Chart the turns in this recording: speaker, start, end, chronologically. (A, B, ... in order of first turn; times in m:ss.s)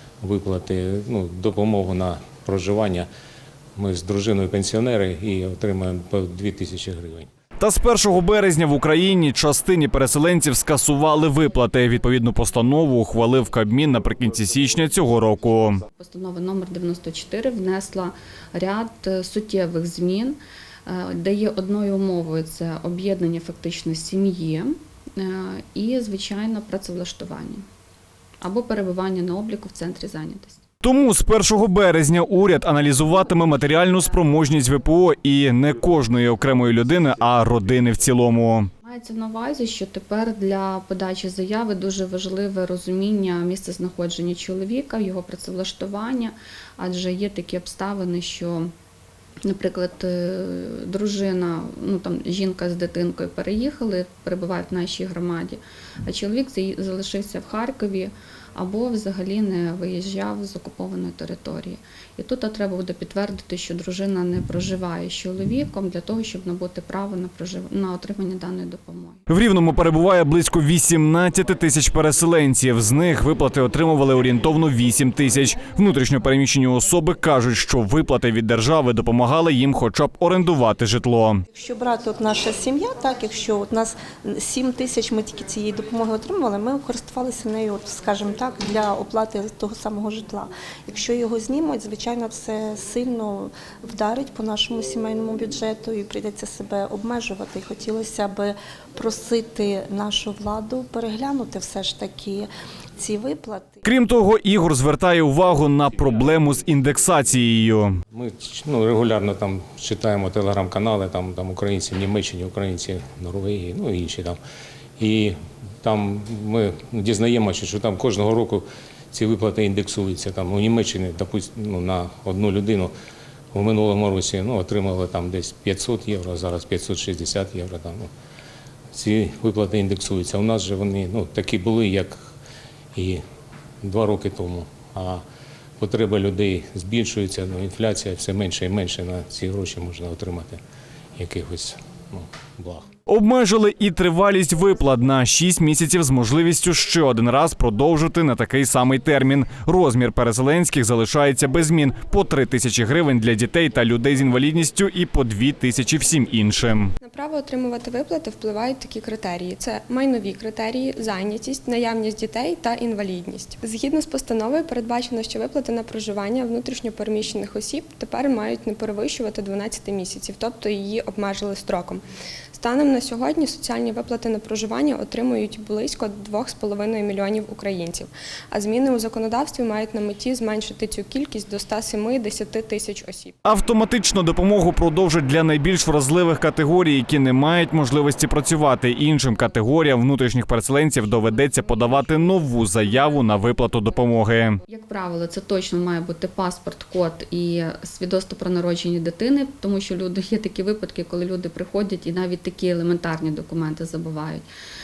0:00.2-0:03.1 A
0:03.8-0:07.3 A
0:07.6-0:15.8 B
0:16.0-0:27.6 C
0:28.4-0:30.6 C
0:30.8-0:38.7 B
0:38.8-0:48.7 C
0:49.4-1:09.2 C
1:09.3-1:21.4 B
1:21.5-1:43.8 D
1:43.8-1:48.0 B
1:48.1-1:54.4 A
1:55.0-2:02.9 A
2:03.5-2:08.1 A
2:08.9-2:12.2 A
2:12.9-2:13.2 A
2:13.8-2:15.2 A
2:15.8-2:20.6 A
2:21.2-2:22.9 A
2:23.1-2:36.9 B
2:37.0-2:52.0 E
2:52.5-3:03.3 E
3:03.4-3:14.6 B
3:14.7-3:24.4 C